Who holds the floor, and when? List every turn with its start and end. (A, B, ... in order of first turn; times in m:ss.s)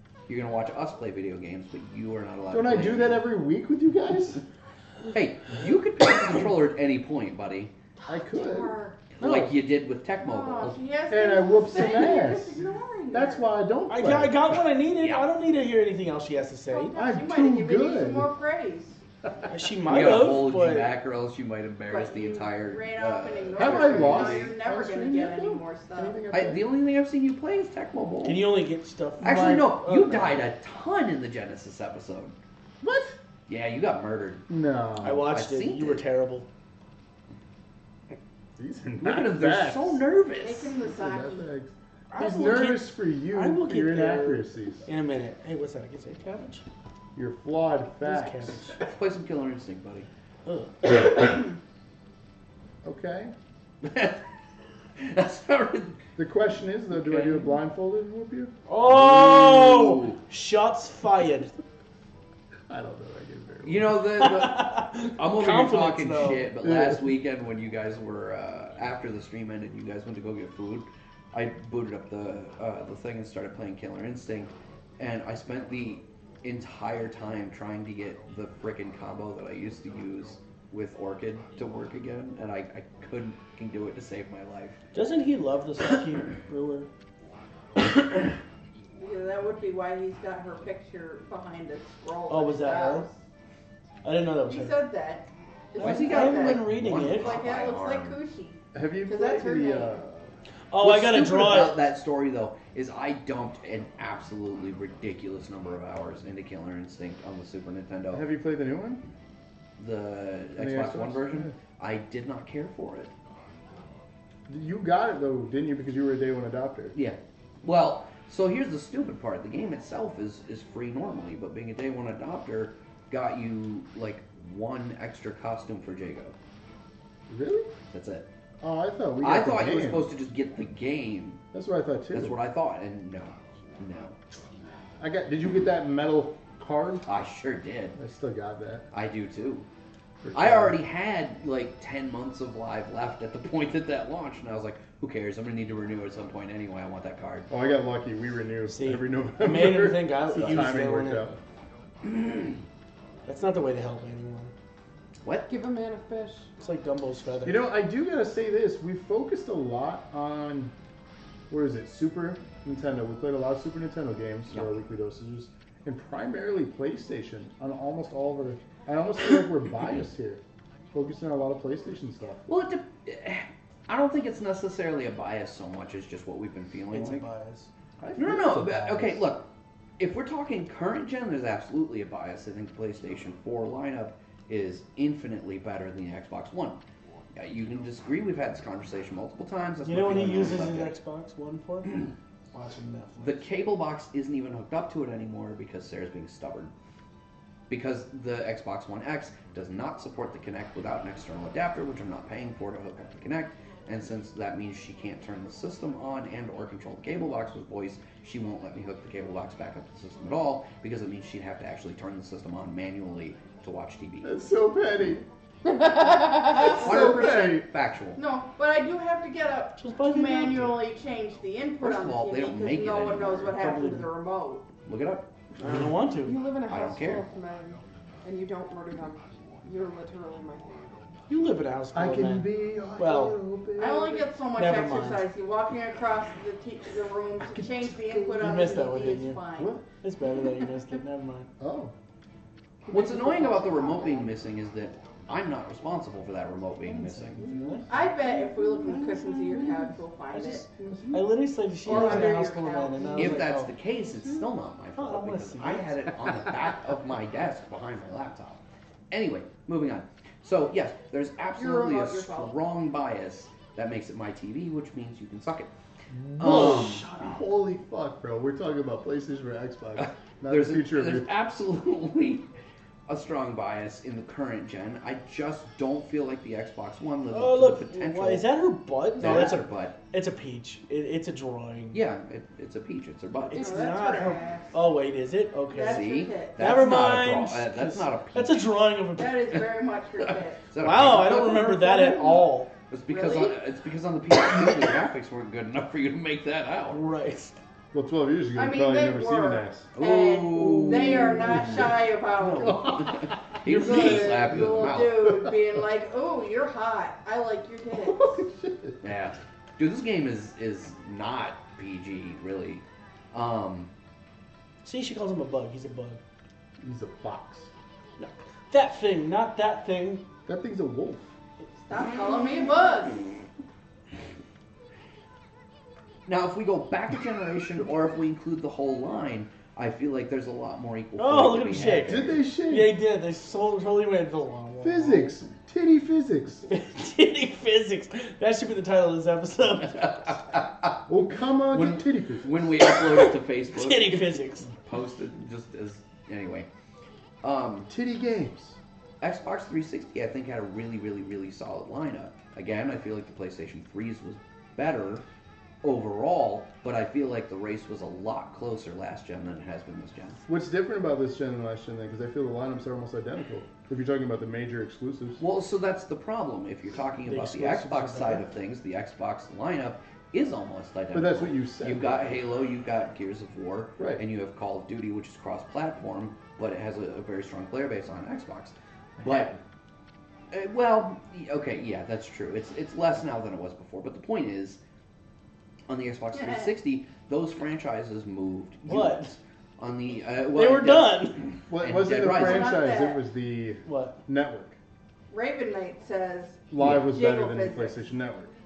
0:00.3-0:03.2 A
0:02.5-0:04.4 B
0:05.1-0:07.7 A
0:08.0-0:09.1 C
0:08.1-0:08.7 B
0:09.2-0:10.8 A
0:09.2-0:09.5 D
0:10.2-0:13.5 C
0:11.1-0:12.6 B
0:13.1-0:14.5 B
0:13.9-0:16.9 D
0:15.0-0:15.2 A
0:16.7-0:19.0 C
0:17.0-0:18.3 B
0:19.5-0:20.9 D
0:19.9-0:24.5 A
0:21.9-0:26.2 C
0:23.6-0:26.7 B
0:26.3-0:28.5 A
0:28.2-0:30.5 D
0:29.2-0:32.4 A
0:29.2-0:29.7 B
0:32.8-0:33.2 B
0:33.5-0:34.5 A
0:34.5-0:35.3 B
0:35.0-0:36.5 D
0:35.2-0:36.0 A
0:38.6-0:40.0 B
0:39.0-0:40.7 A
0:40.4-0:41.5 C
0:40.8-0:44.9 B
0:42.1-0:46.6 D
0:47.2-0:48.7 B
0:48.0-0:48.8 D
0:48.8-0:50.1 A
0:50.5-0:51.3 D
0:52.8-0:53.3 B
0:53.8-0:54.2 A
0:55.0-0:56.0 A
0:56.2-0:58.5 B
0:56.9-0:57.5 A
0:58.7-1:01.5 D
0:58.8-1:00.2 A
1:02.7-1:04.0 B
1:03.6-1:24.8 A
1:04.1-1:06.5 D
1:06.6-1:07.0 B
1:24.9-1:26.9 D
1:29.0-1:33.2 C
1:32.3-1:33.1 D
1:34.0-1:34.8 D
1:34.5-1:40.0 C
1:35.8-1:37.4 D
1:35.8-1:38.2 A
1:38.7-1:40.4 B
1:40.7-1:41.8 D
1:40.8-1:48.3 A
1:48.1-1:49.0 B
1:49.8-1:53.1 A
1:50.6-1:51.5 B
1:54.5-1:57.0 B
1:56.9-2:06.4 A
2:07.3-2:07.7 B
2:07.9-2:08.3 A
2:08.6-2:10.1 B
2:09.2-2:11.4 A
2:11.5-2:12.4 B
2:12.1-2:14.2 A
2:15.0-2:17.1 B
2:17.1-2:18.0 A
2:18.0-2:18.9 B
2:18.9-2:19.7 A
2:20.2-2:20.8 B
2:20.3-2:27.5 A
2:27.5-2:31.4 B
2:28.7-2:31.3 D
2:30.4-2:30.7 A
2:32.0-2:32.6 A
2:33.3-2:34.5 D
2:35.2-2:35.5 A
2:35.5-2:36.5 E
2:36.6-2:37.6 D
2:37.4-2:40.7 B
2:41.5-2:50.4 B
2:50.9-2:52.4 B
2:52.5-2:57.2 A
2:56.9-2:57.7 D
2:58.0-2:59.3 B
2:58.2-2:59.5 A
3:00.0-3:06.8 A
3:07.4-3:11.0 A
3:09.8-3:13.4 D
3:13.2-3:16.7 A
3:17.7-3:34.4 A
3:34.2-3:35.3 B
3:35.7-3:37.4 C
3:36.5-3:38.2 A
3:36.6-3:37.7 B
3:38.2-3:44.7 C
3:39.8-3:40.8 D
3:41.8-3:43.6 A
3:43.6-3:44.1 D
3:44.8-3:45.3 A
3:45.6-3:46.4 D
3:46.2-3:50.8 E
3:46.7-3:47.2 A
3:51.3-3:53.4 D
3:51.9-3:54.3 B
3:53.8-3:59.8 C
3:54.6-3:55.3 D
3:58.4-3:59.4 D
3:58.4-3:58.8 E
3:59.6-3:59.8 B
4:00.0-4:01.5 D
4:01.6-4:01.9 B
4:02.9-4:07.4 A
4:02.9-4:04.3 C
4:06.8-4:08.0 D
4:07.9-4:10.7 C
4:08.8-4:09.6 E
4:09.3-4:09.8 D
4:10.3-4:13.7 D
4:10.9-4:11.2 B
4:11.8-4:13.4 C
4:13.2-4:25.7 A
4:15.0-4:16.5 D
4:21.6-4:22.6 C
4:26.1-4:31.3 B
4:26.4-4:27.1 A
4:30.0-4:32.5 A
4:33.1-4:38.5 A
4:37.3-4:42.0 D
4:39.2-4:40.0 A
4:41.9-4:43.7 A
4:43.5-4:44.8 C
4:43.5-4:49.5 D
4:45.7-4:46.7 C
4:45.8-4:48.7 A
4:49.2-4:50.7 C
4:50.2-4:57.0 A
4:50.8-4:52.7 D
4:53.1-4:53.6 C
4:56.9-4:57.6 D
4:57.9-4:59.9 B
4:58.6-5:08.4 C
5:00.0-5:05.4 A
5:00.6-5:01.5 D
5:01.3-5:01.6 B
5:08.0-5:09.0 B
5:09.0-5:13.9 A
5:14.8-5:16.2 D
5:16.8-5:17.7 B
5:18.2-5:20.2 D
5:20.5-5:21.3 B
5:21.8-5:23.3 C
5:26.3-5:32.4 A
5:31.2-5:35.4 D
5:32.0-5:33.0 B
5:34.8-5:36.7 B
5:36.7-5:40.4 D
5:39.9-5:41.0 A
5:41.1-5:42.6 B
5:41.7-5:46.7 A
5:42.8-5:44.7 D
5:47.4-5:47.9 A
5:47.9-5:48.8 B
5:49.2-5:55.2 A
5:55.8-6:00.4 A
6:00.5-6:05.4 B
6:05.4-6:19.5 A
6:07.2-6:08.4 D
6:11.1-6:12.5 B
6:19.2-6:19.6 B
6:20.5-6:24.8 A
6:25.9-6:32.8 A
6:26.3-6:26.7 C
6:28.9-6:29.3 D
6:30.5-6:31.5 D
6:31.7-6:34.8 B
6:32.3-6:33.2 C
6:33.9-6:34.2 D
6:35.3-6:38.0 C
6:36.7-6:38.5 B